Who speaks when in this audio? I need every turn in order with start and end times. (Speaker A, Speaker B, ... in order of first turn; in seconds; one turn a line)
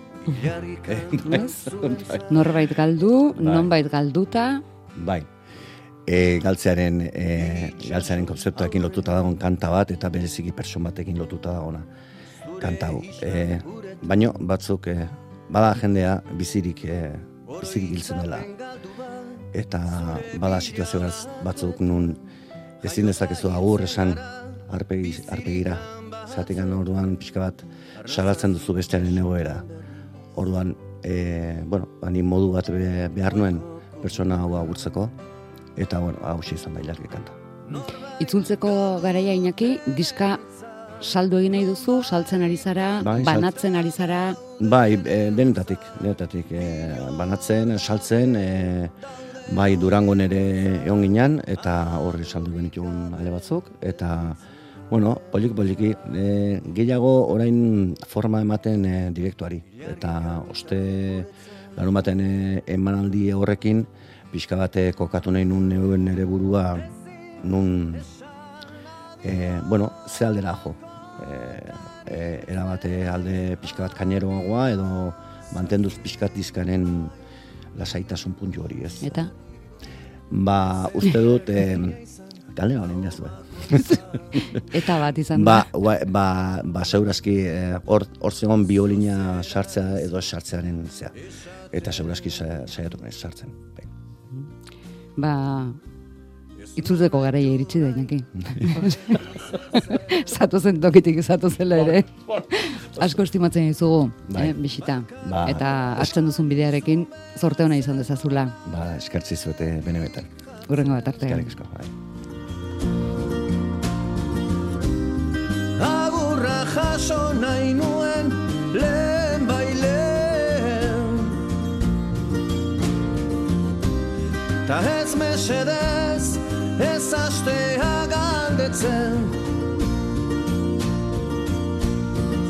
Speaker A: 0.2-2.5
Speaker B: 0.9-2.2
Speaker C: 1.2-1.7
Speaker C: 2.3-4.6
Speaker B: 3.3-3.7
Speaker B: 5.0-5.3
Speaker B: 6.0-11.9
Speaker A: 7.7-8.2
Speaker A: 12.5-14.0
Speaker B: 12.6-18.5
Speaker A: 17.8-19.4
Speaker B: 19.5-22.2
Speaker B: 22.8-29.7
Speaker A: 23.1-23.6
Speaker B: 30.3-35.1
Speaker B: 35.8-37.4
Speaker C: 38.2-40.4
Speaker C: 41.0-44.4
Speaker B: 43.0-43.5
Speaker B: 44.6-48.9
Speaker B: 49.5-68.1
Speaker B: 69.2-77.1
Speaker B: 77.7-79.2
Speaker C: 79.0-79.3
Speaker B: 80.3-82.0
Speaker B: 82.5-84.6
Speaker C: 84.5-85.7
Speaker B: 85.3-91.2
Speaker B: 91.7-93.9
Speaker C: 95.2-95.8
Speaker C: 96.7-108.6
Speaker B: 104.3-104.5
Speaker B: 105.2-106.1
Speaker B: 108.6-110.3
Speaker C: 110.7-111.5
Speaker B: 111.2-111.9
Speaker A: 115.8-121.4
Speaker A: 124.6-129.4